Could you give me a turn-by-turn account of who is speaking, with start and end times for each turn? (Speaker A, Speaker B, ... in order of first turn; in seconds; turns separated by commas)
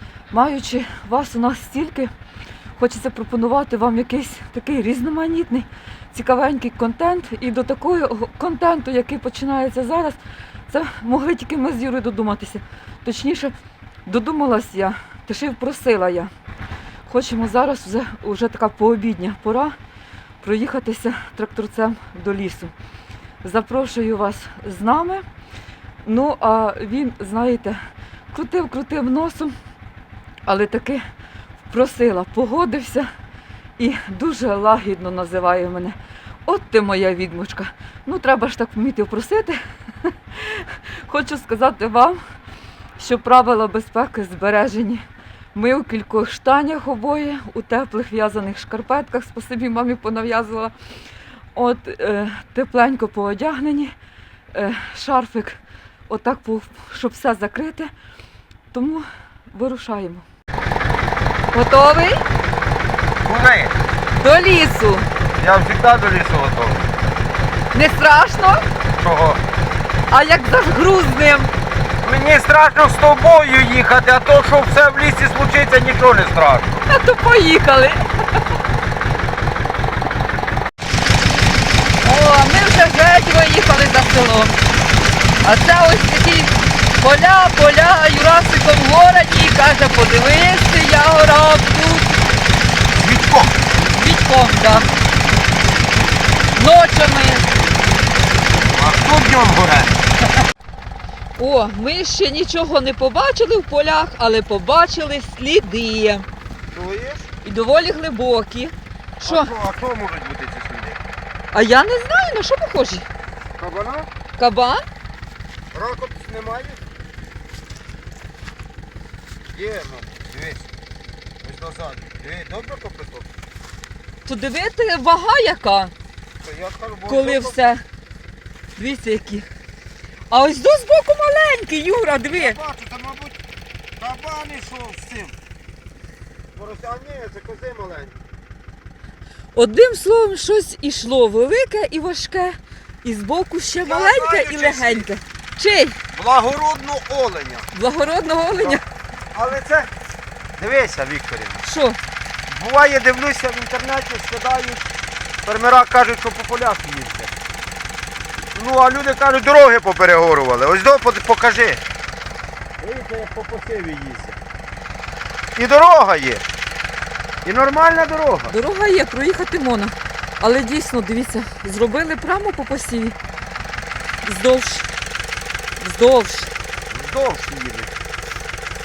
Speaker A: 0.3-2.1, Speaker A: 2.8-13.5, Speaker A: 14.1-16.3, Speaker A: 17.1-19.8, Speaker A: 20.4-22.7, Speaker A: 23.4-25.2, Speaker A: 26.0-27.8, Speaker A: 28.3-29.5, Speaker A: 30.4-31.0, Speaker A: 31.7-33.1, Speaker A: 33.8-42.2, Speaker A: 43.0-50.7, Speaker A: 51.5-53.9, Speaker A: 54.5-57.9, Speaker A: 58.7-60.2, Speaker A: 61.5-62.2, Speaker B: 63.2-63.7, Speaker A: 64.2-65.1, Speaker B: 65.4-66.9, Speaker A: 67.7-68.6, Speaker B: 69.0-69.4, Speaker A: 70.1-71.5, Speaker B: 72.0-76.7, Speaker A: 76.9-78.4, Speaker A: 82.0-84.5, Speaker A: 85.4-92.1, Speaker B: 93.0-93.5, Speaker A: 93.9-94.9, Speaker A: 96.5-97.5, Speaker B: 98.7-100.0, Speaker A: 101.4-106.3, Speaker B: 106.7-107.3, Speaker A: 107.4-109.5, Speaker B: 109.2-111.0, Speaker A: 111.5-113.0, Speaker B: 113.6-114.1, Speaker A: 114.4-114.8, Speaker B: 115.7-116.8, Speaker B: 119.5-120.7, Speaker B: 121.4-123.3, Speaker A: 124.2-125.9, Speaker B: 126.4-127.6, Speaker A: 127.1-127.8, Speaker A: 128.8-129.5, Speaker A: 130.3-132.6, Speaker B: 132.3-133.4, Speaker B: 134.0-135.4, Speaker B: 136.5-138.2, Speaker A: 139.5-146.0, Speaker B: 143.8-145.1, Speaker B: 146.1-147.7, Speaker A: 147.7-148.8, Speaker B: 148.5-148.8, Speaker B: 149.3-149.9, Speaker B: 150.6-151.6, Speaker A: 151.6-152.0, Speaker B: 152.5-154.9, Speaker B: 155.4-157.3, Speaker B: 158.5-161.8, Speaker B: 162.8-164.4, Speaker B: 165.6-166.4, Speaker B: 167.4-168.5, Speaker A: 168.5-173.2, Speaker A: 174.2-174.9, Speaker A: 175.8-176.5, Speaker B: 176.9-177.9